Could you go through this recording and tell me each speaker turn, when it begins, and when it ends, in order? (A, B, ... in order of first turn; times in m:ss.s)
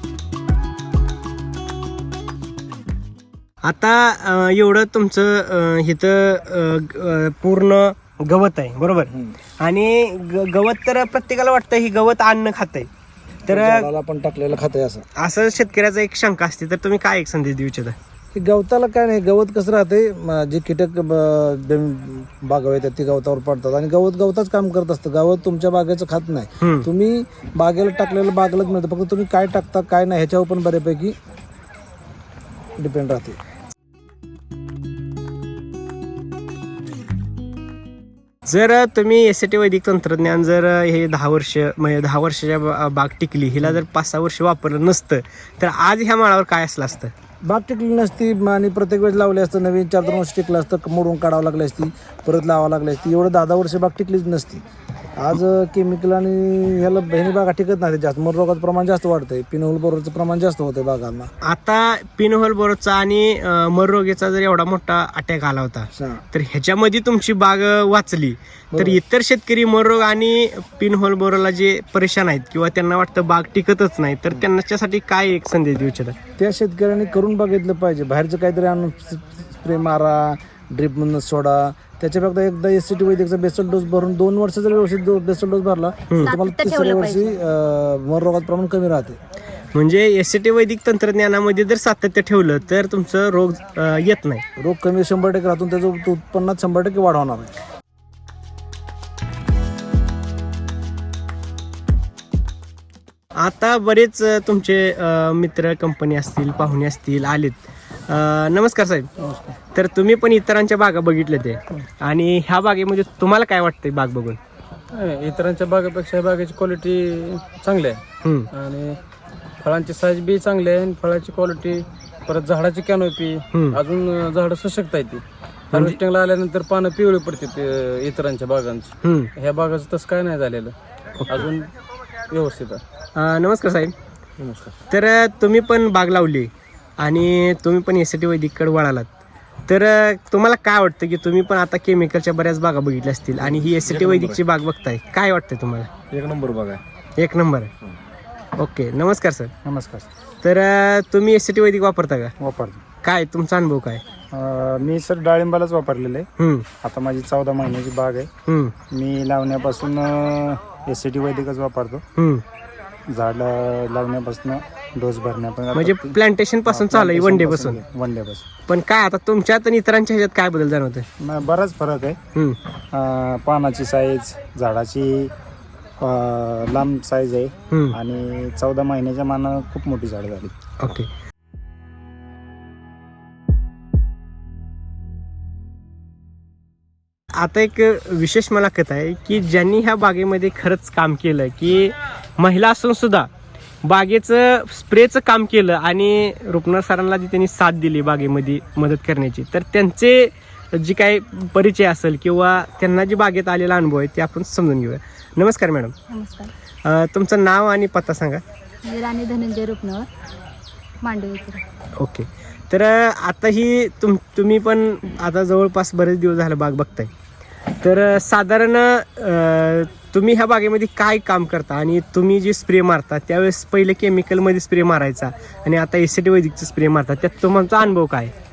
0:03.6-0:09.1 A
0:09.1-0:09.4 B
0:09.6-0:12.9 A
0:13.5-0:13.9 A
0:13.5-0:15.0 B
0:15.2-0:18.0 A
0:18.3-0:31.2 B
0:26.6-0:26.9 A
0:32.8-0:33.4 B
0:38.5-0:47.1 A
0:47.5-0:54.6 B
0:55.2-1:01.3 B
1:01.4-1:16.2 A
1:06.0-1:06.2 B
1:08.7-1:09.0 B
1:16.4-1:29.2 B
1:26.2-1:27.4 C
1:29.7-1:34.4 A
1:34.6-1:37.5 B
1:43.4-1:49.1 A
1:49.2-1:49.6 D
1:49.8-1:54.4 A
1:54.9-1:59.0 D
1:58.2-1:58.5 A
1:59.6-2:10.8 D
2:03.5-2:03.8 A
2:05.7-2:06.0 A
2:09.0-2:09.3 A
2:11.2-2:11.5 A
2:11.3-2:11.7 D
2:12.3-2:12.8 D
2:13.2-2:13.9 A
2:14.4-2:14.7 B
2:14.9-2:19.1 A
2:19.7-2:25.9 A
2:26.1-2:26.8 E
2:27.2-2:27.7 A
2:28.6-2:29.5 A
2:29.6-2:30.1 E
2:30.4-2:32.3 A
2:32.4-2:32.8 E
2:33.0-2:34.0 A
2:34.3-2:36.3 E
2:36.4-2:36.6 A
2:36.8-2:38.3 E
2:38.5-2:38.7 A
2:38.9-2:42.0 E
2:42.2-2:42.4 A
2:43.1-2:48.4 E
2:45.7-2:47.8 A
2:48.7-2:51.1 A
2:51.2-2:52.2 E
2:52.9-2:55.3 E
2:56.0-3:00.5 E
2:57.7-2:58.0 A
3:00.8-3:01.1 A
3:07.4-3:13.3 A
3:13.8-3:25.9 A
3:26.1-3:26.5 C
3:26.8-3:28.4 A
3:28.8-3:30.1 C
3:31.0-3:31.6 C
3:32.0-3:37.1 A
3:37.8-3:48.3 A